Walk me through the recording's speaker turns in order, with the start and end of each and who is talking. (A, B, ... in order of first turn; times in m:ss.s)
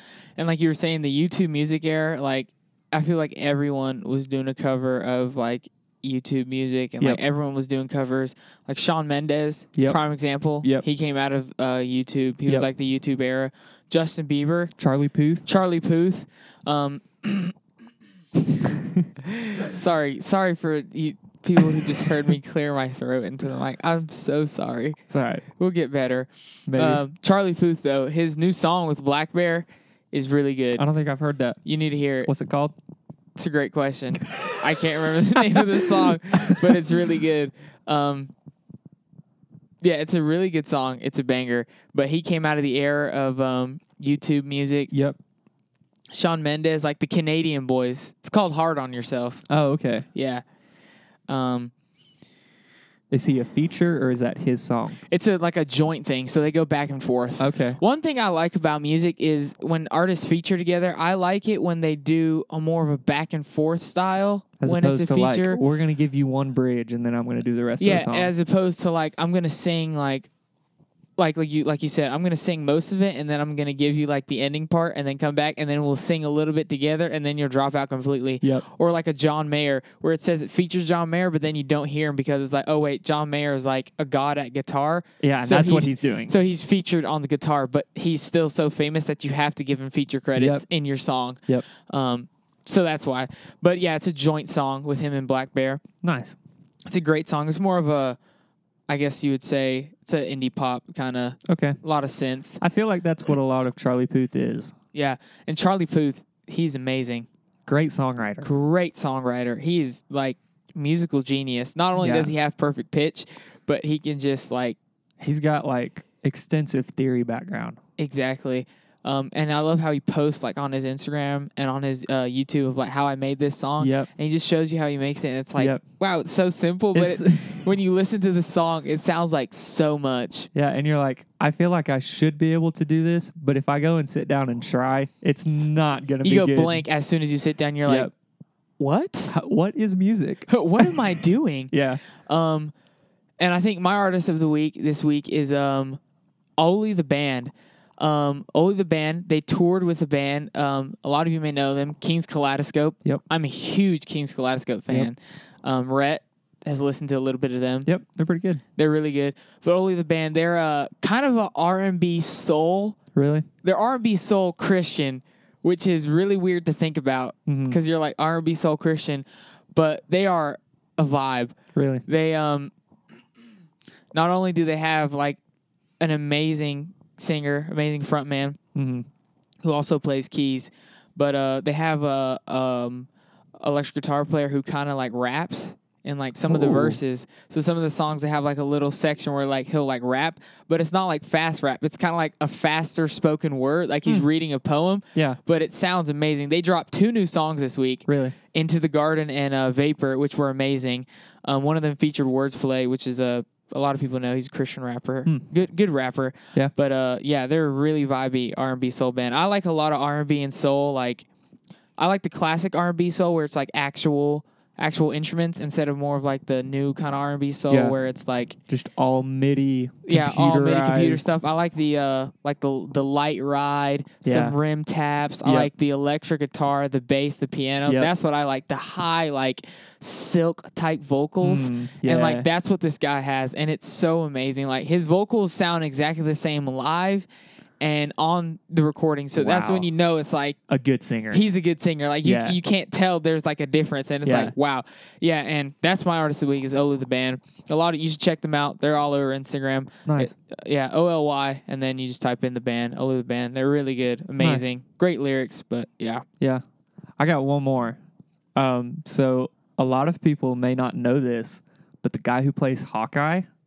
0:00.4-0:14.7 A
0:14.8-0:15.4 B
0:15.4-0:17.5 A
0:18.6-0:19.1 B
0:19.2-0:25.0 A
0:25.1-0:25.4 B
0:25.6-0:30.8 A
0:26.7-0:27.0 B
0:30.8-0:31.6 B
0:31.6-0:32.3 A
0:32.2-0:32.7 B
0:33.4-0:38.3 A
0:35.5-0:36.8 B
0:39.8-0:44.9 A
0:44.9-0:45.2 B
0:46.1-0:49.4 A
0:49.5-0:50.1 B
0:50.1-0:50.4 A
0:51.3-0:51.7 A
0:53.1-0:55.0 B
0:55.1-1:05.6 A
0:57.4-0:57.8 B
1:04.6-1:08.3 B
1:07.8-1:10.3 A
1:11.2-1:35.8 A
1:25.2-1:26.3 B
1:30.4-1:30.6 B
1:36.0-1:36.4 B
1:36.9-1:38.2 A
1:38.9-1:42.6 A
1:41.5-1:41.8 B
1:42.6-1:44.7 B
1:44.9-1:47.3 A
1:47.7-1:48.5 B
1:48.4-1:54.8 A
1:52.0-1:52.3 B
1:55.2-1:57.8 B
1:58.0-2:10.5 A
2:03.8-2:04.1 B
2:06.9-2:07.6 B
2:10.5-2:16.8 B
2:16.2-2:18.1 A
2:17.8-2:18.1 B
2:18.8-2:19.3 A
2:19.3-2:21.0 B
2:20.5-2:22.7 A
2:21.7-2:22.0 B
2:23.4-2:26.0 A
2:26.6-2:37.9 A
2:37.8-2:38.6 B
2:38.8-2:43.0 A
2:43.1-2:43.5 B
2:43.6-2:52.7 A
2:47.5-2:47.8 B
2:51.7-2:52.0 B
2:54.1-2:55.4 A
2:56.0-2:58.6 A
2:58.7-2:59.1 B
2:59.6-3:03.1 A
3:03.6-3:31.2 A
3:06.5-3:07.0 B
3:18.1-3:18.3 B
3:32.0-3:38.6 A
3:37.7-3:38.0 B
3:38.7-3:41.3 B
3:40.0-3:57.2 A
3:44.2-3:44.6 B
3:45.4-3:45.7 B
3:47.8-3:48.1 B
3:51.4-3:52.5 B
3:57.8-4:00.6 A
3:59.4-3:59.9 B
4:00.7-4:01.4 B
4:01.3-4:16.2 A
4:02.2-4:02.6 B
4:04.2-4:04.5 B
4:10.0-4:10.3 B
4:14.4-4:14.6 B
4:17.2-4:18.0 B
4:18.6-4:23.5 B